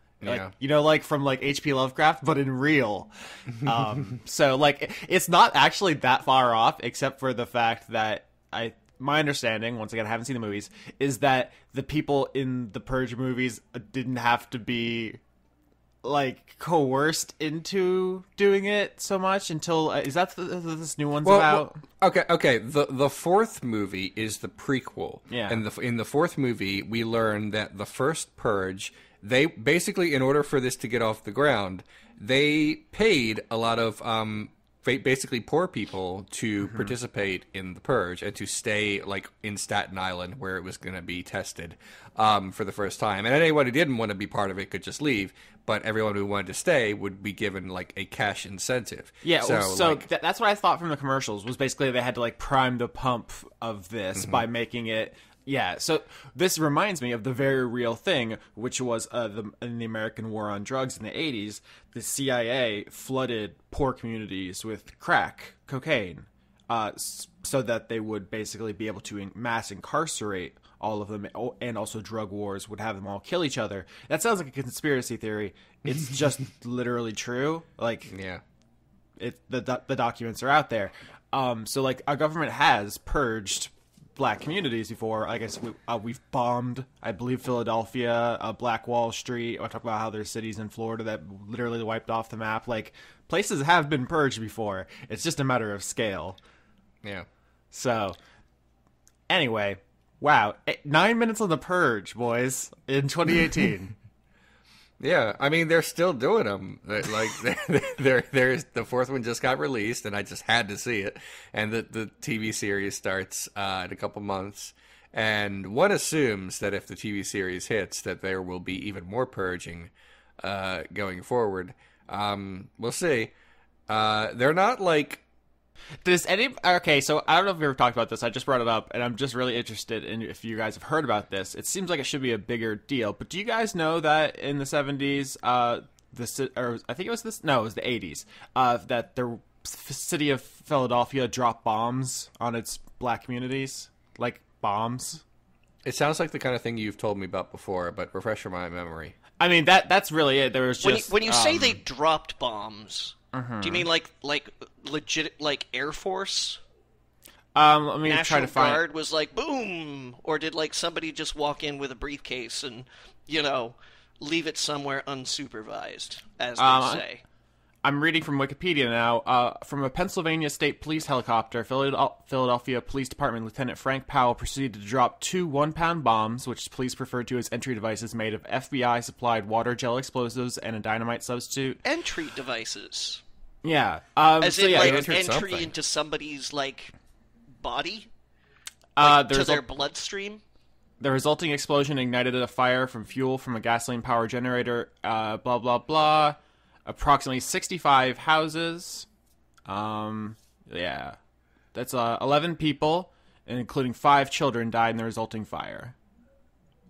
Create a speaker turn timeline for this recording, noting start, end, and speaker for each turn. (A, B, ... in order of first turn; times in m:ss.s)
0:00.2-0:00.5 A
0:00.2-0:15.2 B
0:16.0-0:21.8 B
0:21.2-0:50.1 A
0:25.3-0:25.6 B
0:49.2-1:18.1 B
1:18.1-1:18.4 A
1:19.2-1:36.4 B
1:37.7-1:38.2 B
1:39.3-1:43.9 B
1:45.0-2:03.3 A
2:03.9-2:05.2 A
2:06.0-2:25.2 B
2:25.8-2:29.2 A
2:29.4-2:31.8 B
2:30.8-2:36.6 C
2:33.3-2:33.9 B
2:37.6-2:38.8 B
2:38.0-2:47.2 C
2:46.6-2:47.0 B
2:47.8-3:01.8 B
3:01.8-3:03.2 C
3:03.6-3:05.1 B
3:04.4-3:06.9 C
3:04.7-3:05.7 A
3:07.6-3:08.1 C
3:09.0-3:09.6 B
3:09.0-3:10.4 C
3:11.0-3:19.1 B
3:19.7-3:21.2 B
3:21.7-3:26.0 B